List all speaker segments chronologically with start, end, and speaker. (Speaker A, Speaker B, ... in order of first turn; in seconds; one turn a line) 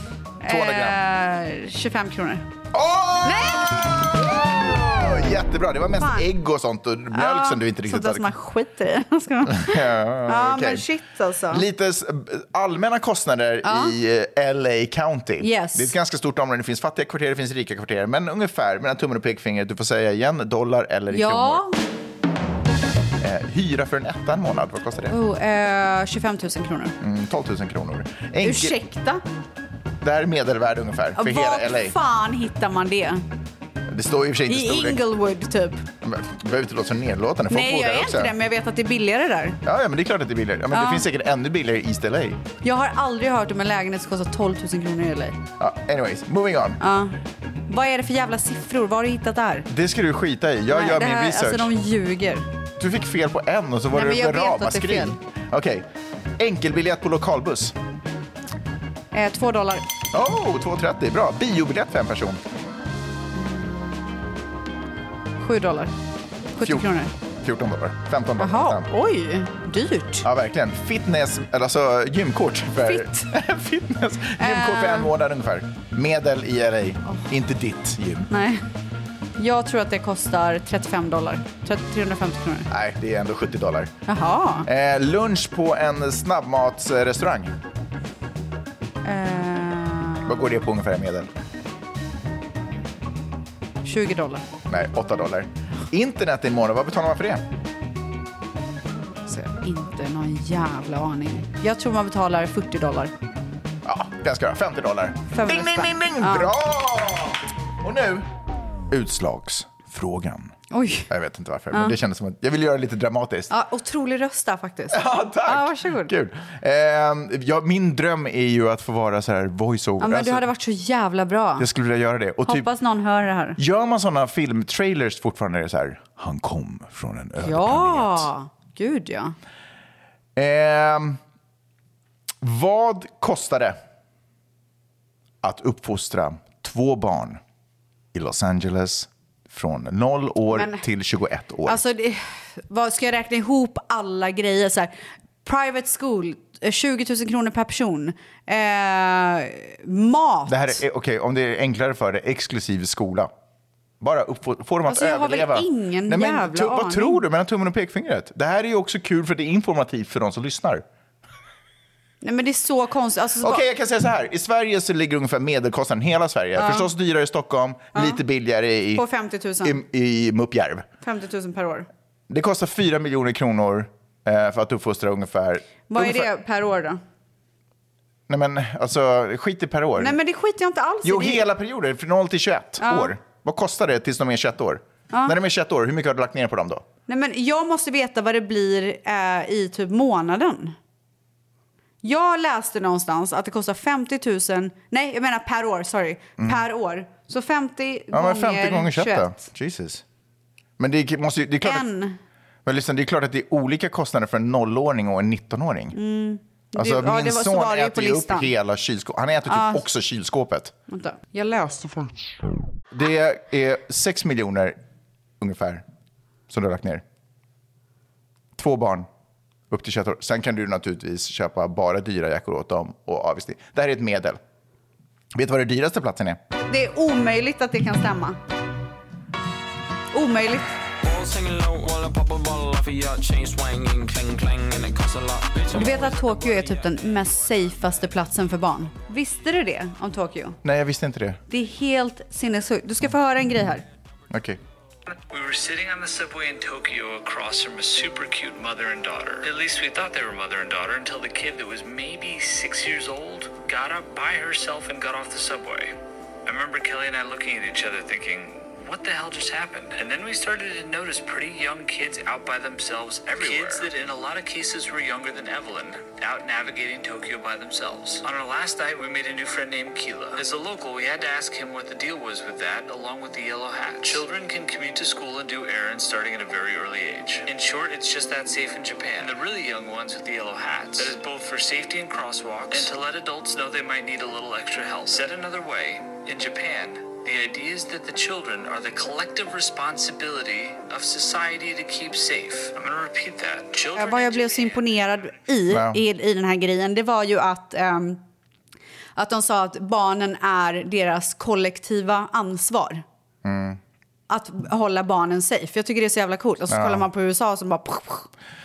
Speaker A: 0.4-2.5
Speaker B: 0.5-1.0
Speaker B: 2.7-8.3
Speaker A: 3.2-4.5
Speaker A: 6.0-6.3
Speaker A: 7.1-11.6
Speaker B: 9.4-10.8
Speaker B: 11.5-21.6
Speaker A: 13.6-13.9
Speaker A: 15.4-15.9
Speaker A: 21.1-21.8
Speaker B: 23.2-25.1
Speaker A: 25.1-26.9
Speaker B: 27.0-28.8
Speaker A: 28.4-29.2
Speaker B: 30.0-31.9
Speaker A: 31.2-33.2
Speaker B: 33.9-35.0
Speaker A: 34.5-35.8
Speaker B: 36.0-38.3
Speaker A: 37.5-39.6
Speaker B: 39.6-42.4
Speaker A: 40.7-41.1
Speaker A: 42.6-45.4
Speaker B: 45.6-46.8
Speaker A: 46.8-47.1
Speaker A: 47.7-49.7
Speaker B: 49.7-51.7
Speaker A: 50.7-52.5
Speaker B: 52.8-57.8
Speaker A: 53.9-55.2
Speaker A: 59.1-59.9
Speaker B: 60.1-62.4
Speaker A: 63.3-64.1
Speaker A: 65.4-65.9
Speaker A: 66.6-67.1
Speaker B: 66.6-66.9
Speaker B: 67.4-68.9
Speaker A: 68.4-70.2
Speaker B: 70.2-78.3
Speaker A: 72.8-73.3
Speaker A: 74.4-75.1
Speaker A: 78.3-78.6
Speaker A: 79.4-82.7
Speaker B: 82.7-83.9
Speaker A: 84.1-84.7
Speaker B: 84.6-87.5
Speaker A: 89.0-90.4
Speaker B: 90.2-91.3
Speaker A: 93.8-94.4
Speaker B: 94.7-97.4
Speaker A: 99.2-103.1
Speaker B: 103.8-108.3
Speaker A: 105.3-106.5
Speaker B: 108.9-110.5
Speaker A: 110.7-111.1
Speaker B: 111.1-113.5
Speaker A: 113.5-116.1
Speaker B: 114.9-120.5
Speaker A: 120.0-121.7
Speaker B: 121.6-122.7
Speaker A: 122.5-123.6
Speaker B: 123.6-128.3
Speaker A: 127.4-129.3
Speaker B: 130.3-131.2
Speaker B: 132.4-133.8
Speaker B: 135.4-137.4
Speaker B: 138.1-141.8
Speaker A: 140.5-140.8
Speaker A: 141.6-144.9
Speaker A: 145.4-150.8
Speaker B: 150.5-153.3
Speaker B: 154.0-160.8
Speaker A: 154.9-157.2
Speaker A: 162.2-163.6
Speaker B: 163.4-169.0
Speaker A: 166.6-166.9
Speaker A: 167.9-168.2
Speaker A: 168.9-169.8
Speaker B: 169.6-170.8
Speaker A: 171.0-171.9
Speaker B: 172.3-176.3
Speaker A: 175.9-177.0
Speaker B: 178.3-180.2
Speaker A: 180.0-181.4
Speaker B: 181.0-186.8
Speaker A: 182.8-183.1
Speaker A: 185.1-185.3
Speaker A: 187.1-190.8
Speaker A: 192.0-199.4
Speaker B: 198.1-200.0
Speaker B: 200.8-201.8
Speaker A: 201.6-202.2
Speaker B: 202.6-205.9
Speaker A: 205.9-208.5
Speaker B: 206.8-210.7
Speaker A: 209.5-209.8
Speaker A: 210.9-212.1
Speaker B: 212.9-214.8
Speaker B: 215.4-215.8
Speaker B: 216.5-217.0
Speaker B: 218.6-219.1
Speaker B: 219.7-224.4
Speaker B: 225.3-226.4
Speaker A: 226.7-228.4
Speaker A: 230.1-230.7
Speaker C: 231.0-236.8
Speaker A: 235.7-240.6
Speaker B: 240.6-241.4
Speaker A: 241.5-243.8
Speaker B: 244.3-244.6
Speaker D: 245.1-255.9
Speaker D: 256.4-294.8
Speaker A: 293.9-298.2
Speaker B: 295.7-296.0
Speaker A: 299.1-303.0
Speaker B: 303.4-303.8
Speaker A: 304.3-308.3
Speaker B: 306.7-307.1